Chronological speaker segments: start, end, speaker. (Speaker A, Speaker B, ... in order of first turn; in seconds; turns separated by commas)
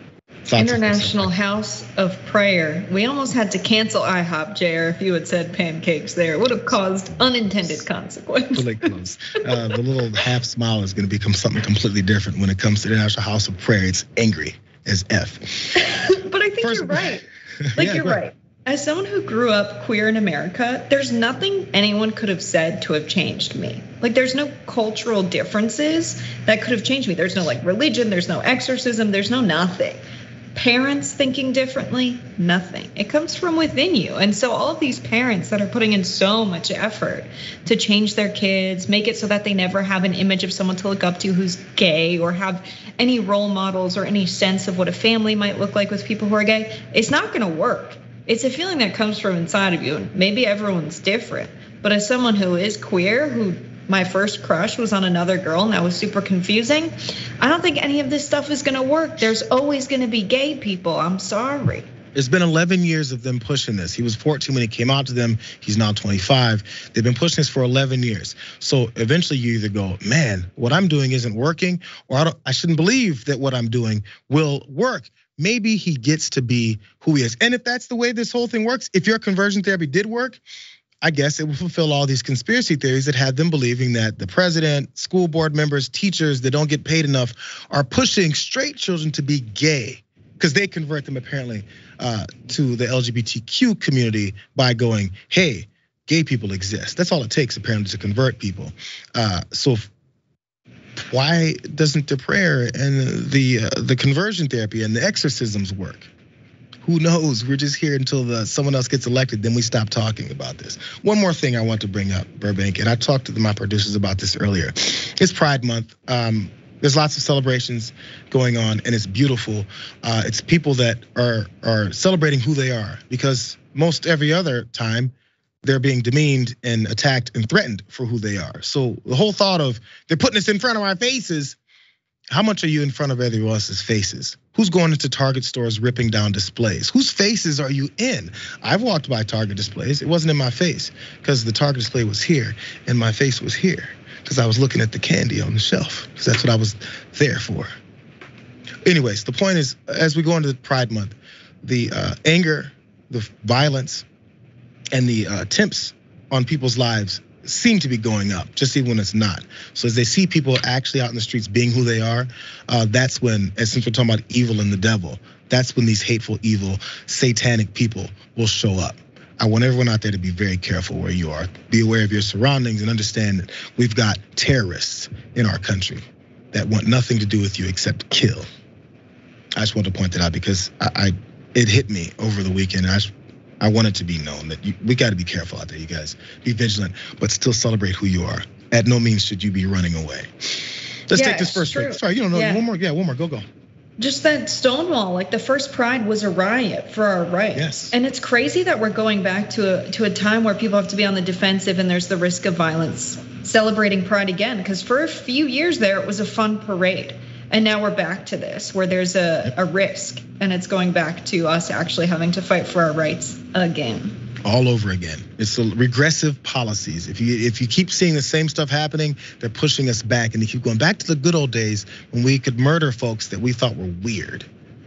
Speaker A: 0.5-1.3, Speaker B: 0.6-8.7, Speaker A: 8.5-15.8, Speaker B: 15.8-17.2, Speaker A: 16.6-18.2, Speaker B: 17.8-30.0, Speaker B: 30.5-61.9, Speaker A: 62.1-80.4, Speaker A: 81.0-99.9, Speaker A: 101.0-106.1, Speaker A: 106.8-125.1, Speaker A: 125.6-131.6, Speaker A: 132.3-147.7, Speaker A: 148.8-154.0, Speaker A: 154.9-178.4, Speaker A: 179.6-193.4, Speaker B: 191.1-192.6, Speaker B: 194.0-214.2, Speaker A: 197.5-197.9, Speaker A: 214.4-224.5